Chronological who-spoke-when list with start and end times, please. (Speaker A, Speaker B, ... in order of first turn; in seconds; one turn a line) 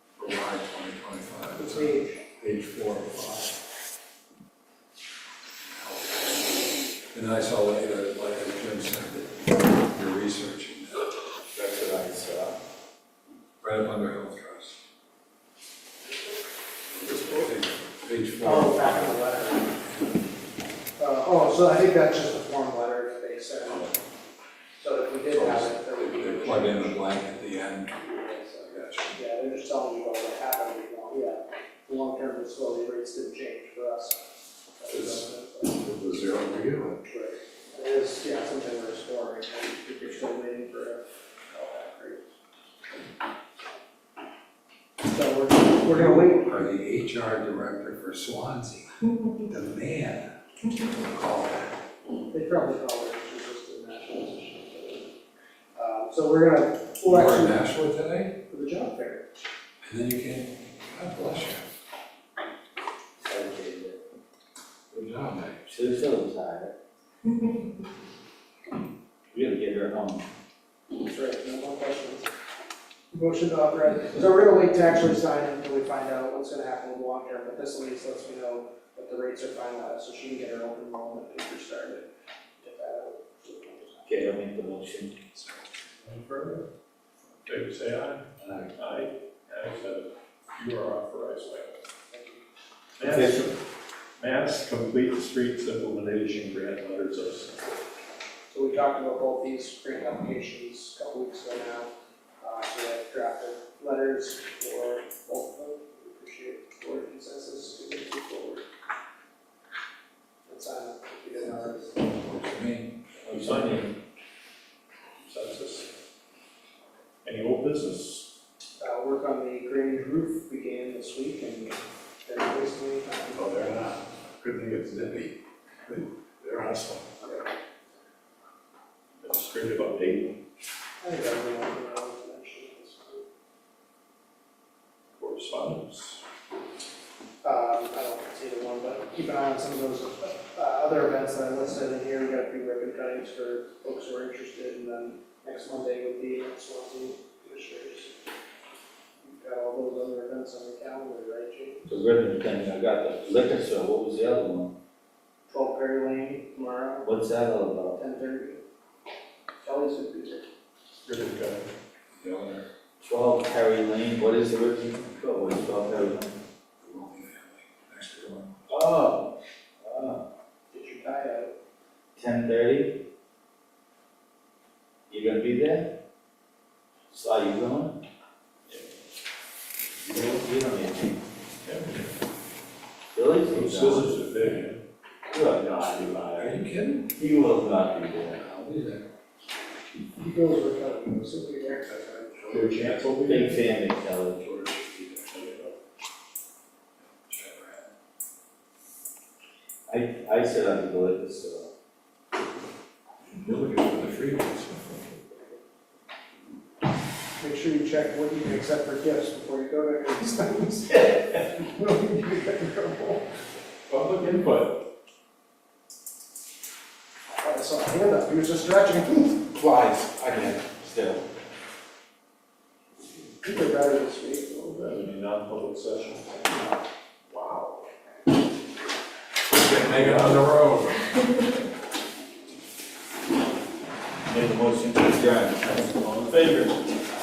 Speaker A: 0.2-3.5
Speaker B: 1.5-2.2
Speaker A: 5.6-11.1
Speaker C: 11.5-12.6
Speaker A: 13.6-14.8
Speaker A: 16.9-19.2
Speaker B: 18.4-19.8
Speaker B: 21.0-23.9
Speaker B: 24.8-27.0
Speaker A: 25.3-28.0
Speaker B: 28.0-35.8
Speaker A: 28.7-29.1
Speaker A: 35.8-37.0
Speaker B: 37.0-42.2
Speaker B: 45.0-46.6
Speaker A: 45.8-48.9
Speaker A: 49.5-51.7
Speaker B: 52.3-55.1
Speaker B: 55.7-57.6
Speaker A: 57.0-58.3
Speaker B: 58.5-59.2
Speaker A: 59.8-61.6
Speaker C: 63.2-64.0
Speaker A: 64.9-65.6
Speaker C: 65.7-66.7
Speaker C: 69.3-70.3
Speaker B: 71.0-72.3
Speaker B: 73.1-82.1
Speaker B: 82.6-84.2
Speaker C: 84.0-85.2
Speaker D: 86.0-86.7
Speaker D: 87.4-91.8
Speaker C: 88.4-88.7
Speaker B: 92.1-92.4
Speaker D: 93.0-93.5
Speaker C: 93.0-93.5
Speaker D: 94.2-97.5
Speaker B: 98.5-108.6
Speaker B: 110.5-112.1
Speaker A: 112.2-112.9
Speaker C: 113.2-113.8
Speaker D: 113.2-113.9
Speaker D: 115.2-115.9
Speaker D: 117.2-118.3
Speaker B: 118.8-123.5
Speaker D: 123.4-125.3
Speaker D: 125.9-127.0
Speaker B: 127.2-127.5
Speaker D: 129.2-130.4
Speaker B: 131.0-133.2
Speaker D: 135.2-136.2
Speaker B: 137.4-148.2
Speaker B: 149.2-152.0
Speaker C: 151.9-154.7
Speaker B: 155.5-157.1
Speaker C: 157.0-158.0
Speaker B: 157.9-158.6
Speaker B: 159.6-160.5
Speaker D: 161.0-161.7
Speaker A: 162.1-162.6
Speaker C: 163.0-166.4
Speaker A: 166.8-168.7
Speaker C: 168.7-170.2
Speaker B: 170.7-171.5
Speaker C: 172.2-173.0
Speaker C: 175.1-175.9
Speaker C: 177.1-178.0
Speaker C: 180.1-181.2
Speaker D: 181.6-182.1
Speaker C: 183.1-184.2
Speaker D: 183.5-184.8
Speaker C: 185.2-186.6
Speaker D: 185.7-186.2
Speaker A: 186.4-187.1
Speaker C: 187.1-188.4
Speaker A: 188.3-189.1
Speaker B: 190.1-192.3
Speaker A: 192.3-193.0
Speaker D: 192.5-193.7
Speaker C: 193.2-194.4
Speaker A: 194.4-195.4
Speaker D: 195.3-195.7
Speaker A: 197.2-197.8
Speaker C: 199.9-201.7
Speaker A: 203.3-205.1
Speaker B: 207.4-213.3
Speaker D: 213.9-214.8
Speaker B: 217.3-219.5
Speaker C: 219.6-221.2
Speaker B: 223.4-224.9
Speaker D: 224.7-226.5
Speaker D: 227.3-227.9
Speaker A: 229.5-231.1
Speaker D: 229.8-230.4
Speaker C: 234.3-236.1
Speaker D: 235.9-236.7